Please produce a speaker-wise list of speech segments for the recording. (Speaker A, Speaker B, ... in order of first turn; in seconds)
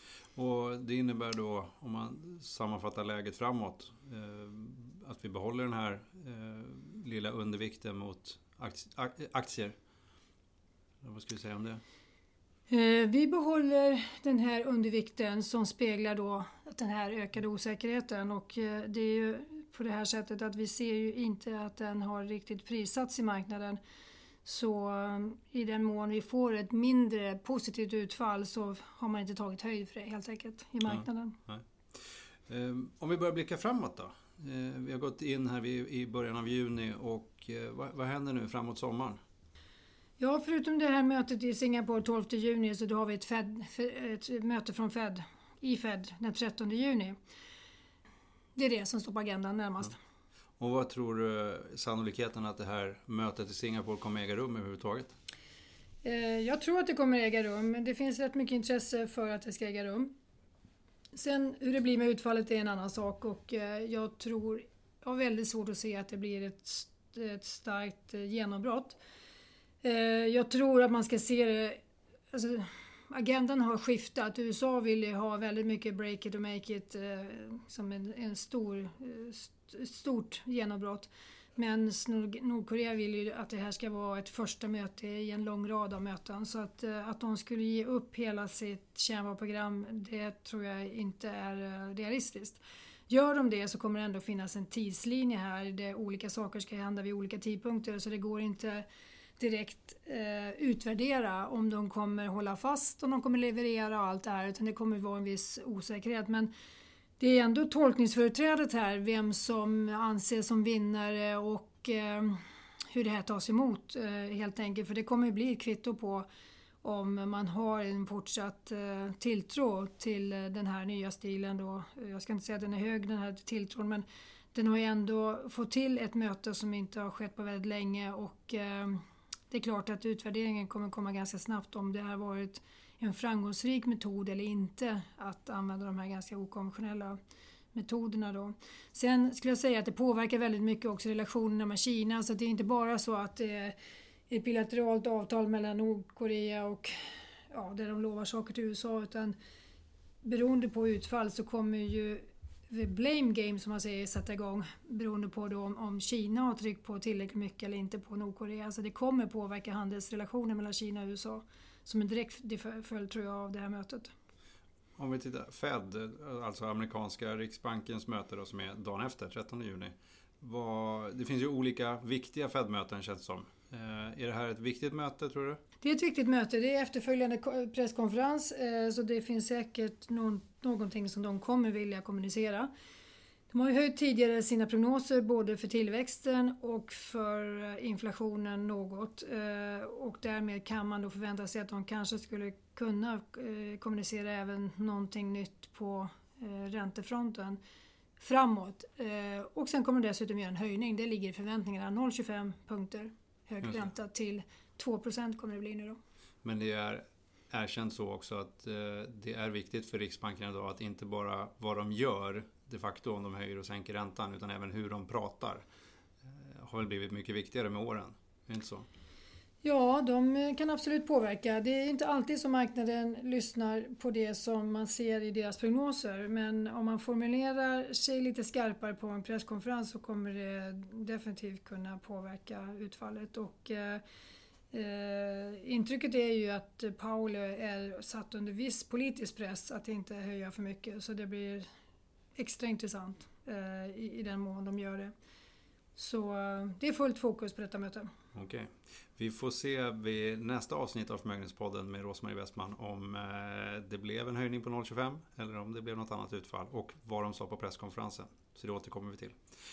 Speaker A: 0.3-9.7, 11.0-11.8, 32.5-39.2, 50.6-55.1, 165.0-175.6, 206.4-215.6, 216.2-218.8, 248.3-259.4
Speaker B: 12.7-23.8, 24.4-31.4, 40.2-47.1, 48.5-50.0, 56.0-60.1, 61.1-69.0, 69.8-71.8, 72.3-98.8, 99.4-106.5, 107.2-116.2, 116.8-137.2, 137.7-143.7, 144.3-146.9, 147.5-149.3, 150.2-164.1, 175.8-182.7, 183.5-197.6, 198.2-206.0, 219.6-234.0, 234.7-241.7, 242.4-245.1, 245.9-248.1